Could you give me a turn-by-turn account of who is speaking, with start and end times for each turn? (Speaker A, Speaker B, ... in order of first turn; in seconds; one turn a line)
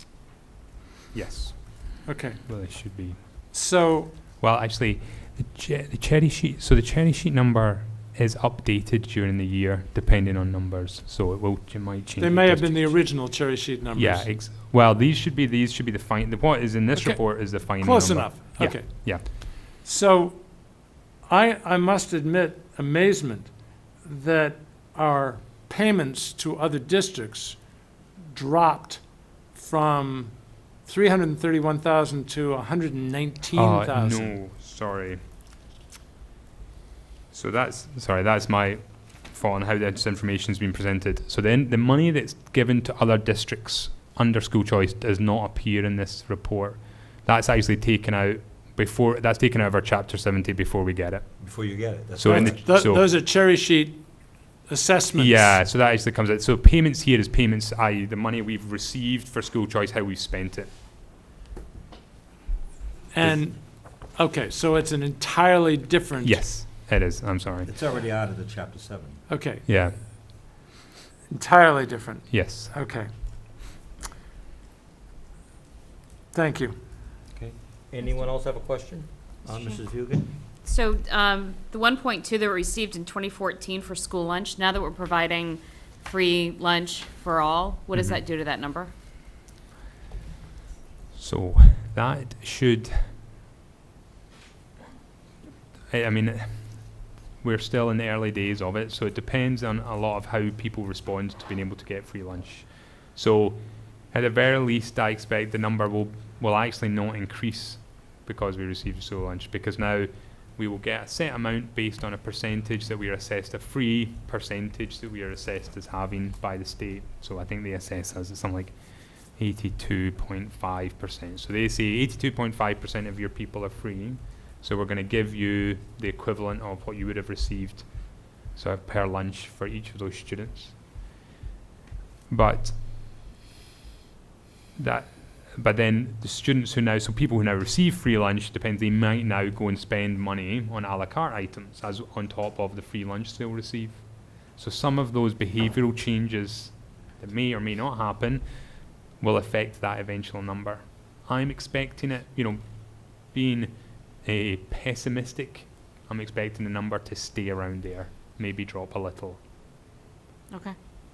Speaker A: 1.1-3.5
Speaker B: 2.0-4.2
Speaker A: 4.4-13.4
Speaker B: 12.2-14.4
Speaker A: 13.9-19.3
Speaker B: 16.9-34.4
Speaker A: 33.5-35.2
Speaker A: 37.3-53.0
Speaker C: 51.4-52.7
Speaker B: 52.2-55.7
Speaker A: 55.2-60.7
Speaker B: 63.1-66.6
Speaker A: 66.2-67.7
Speaker C: 67.7-69.2
Speaker B: 69.3-69.7
Speaker A: 69.7-70.0
Speaker B: 71.3-73.1
Speaker A: 72.3-72.7
Speaker B: 76.3-76.8
Speaker C: 77.3-80.3
Speaker D: 80.6-88.9
Speaker A: 87.9-88.2
Speaker A: 91.2-93.1
Speaker A: 95.9-130.8
Speaker A: 132.3-132.8
Speaker A: 134.8-159.4
Speaker D: 160.5-160.8